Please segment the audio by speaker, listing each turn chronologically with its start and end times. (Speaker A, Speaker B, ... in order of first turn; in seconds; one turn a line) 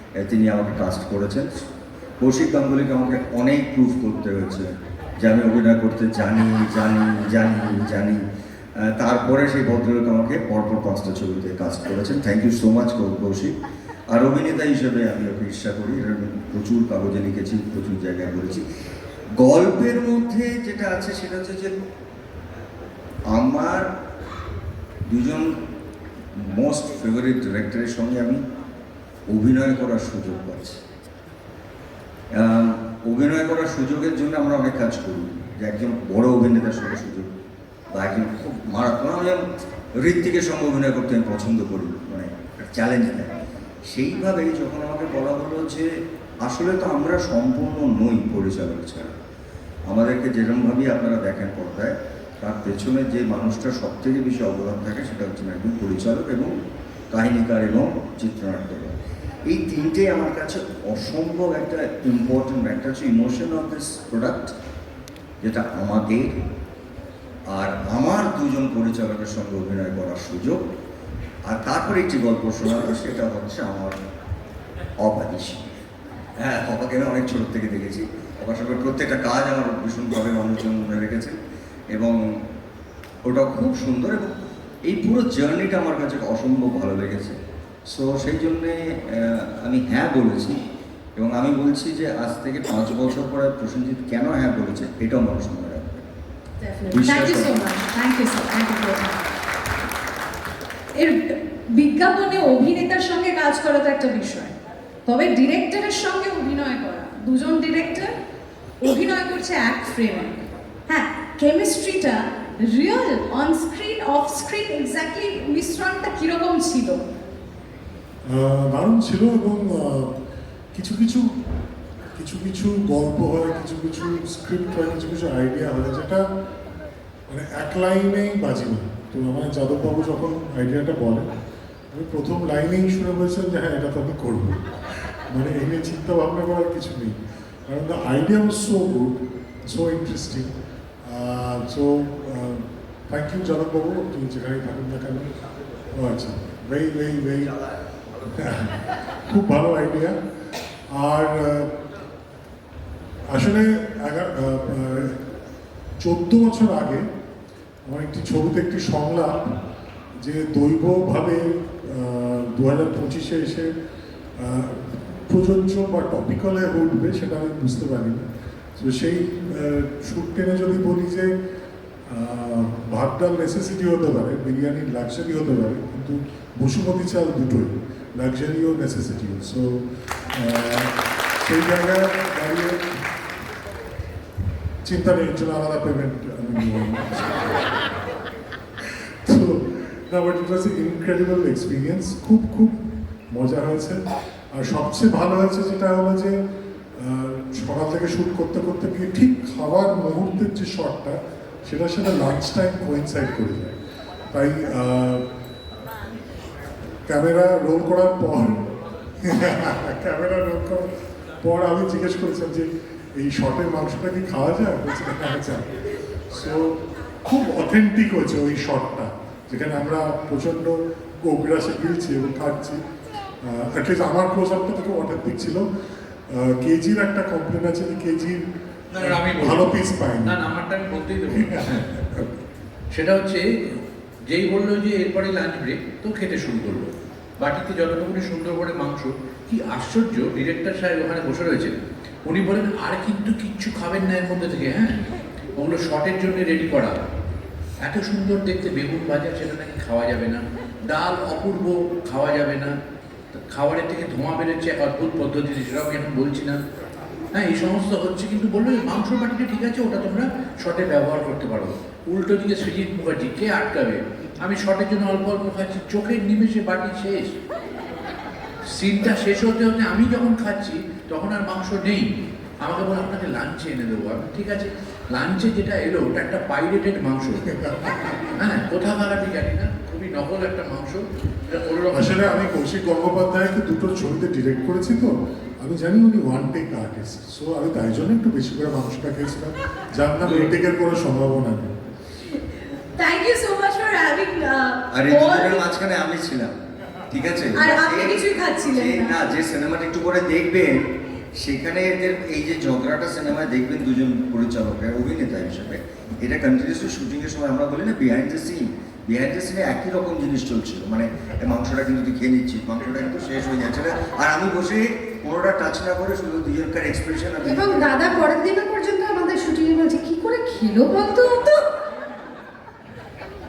Speaker A: 0.2-1.5
Speaker A: 2.2-4.7
Speaker A: 5.2-8.2
Speaker A: 8.8-13.5
Speaker A: 14.1-18.6
Speaker A: 19.4-21.7
Speaker A: 23.3-23.9
Speaker A: 25.1-25.5
Speaker A: 26.4-28.4
Speaker A: 29.3-30.8
Speaker A: 32.3-37.3
Speaker A: 37.9-39.4
Speaker A: 40.0-43.3
Speaker A: 43.9-45.9
Speaker A: 46.4-49.1
Speaker A: 49.9-56.5
Speaker A: 57.1-58.9
Speaker A: 59.5-64.5
Speaker A: 65.4-66.3
Speaker A: 67.5-70.6
Speaker A: 71.5-74.0
Speaker A: 75.0-75.8
Speaker A: 76.4-81.4
Speaker A: 81.9-82.2
Speaker A: 83.2-84.3
Speaker A: 84.8-87.3
Speaker A: 87.9-90.6
Speaker A: 91.2-96.0
Speaker B: 96.6-99.2
Speaker A: 96.9-97.5
Speaker B: 101.0-104.5
Speaker B: 105.0-108.1
Speaker B: 108.8-117.0
Speaker C: 118.3-120.1
Speaker C: 120.7-121.2
Speaker C: 122.2-126.2
Speaker C: 127.3-131.2
Speaker C: 131.9-134.6
Speaker C: 135.3-137.1
Speaker C: 137.7-140.5
Speaker C: 141.1-145.3
Speaker C: 145.9-147.5
Speaker C: 148.3-150.1
Speaker C: 150.9-151.7
Speaker C: 153.3-155.2
Speaker C: 156.0-157.0
Speaker C: 157.9-159.6
Speaker C: 160.2-163.7
Speaker C: 164.4-168.2
Speaker C: 168.8-171.3
Speaker C: 172.1-179.8
Speaker C: 180.3-180.9
Speaker C: 181.4-182.8
Speaker C: 184.8-187.6
Speaker C: 189.2-192.7
Speaker C: 193.3-194.0
Speaker C: 194.5-196.3
Speaker C: 197.0-203.8
Speaker C: 204.3-205.2
Speaker C: 207.1-208.6
Speaker C: 209.2-210.9
Speaker C: 211.4-215.7
Speaker C: 216.3-222.8
Speaker C: 223.4-225.6
Speaker C: 226.3-228.4
Speaker D: 228.9-231.9
Speaker C: 229.0-230.4
Speaker C: 231.3-232.3
Speaker D: 232.9-233.8
Speaker D: 234.3-236.9
Speaker D: 237.4-244.9
Speaker D: 245.6-246.9
Speaker D: 247.8-252.7
Speaker D: 253.5-256.6
Speaker D: 257.3-267.3
Speaker D: 268.7-272.1
Speaker D: 272.6-277.4
Speaker C: 277.5-278.3
Speaker D: 278.4-282.4
Speaker C: 281.9-291.7
Speaker B: 292.9-295.6
Speaker A: 294.9-296.5
Speaker A: 297.1-318.3
Speaker B: 297.5-299.2
Speaker E: 317.4-321.4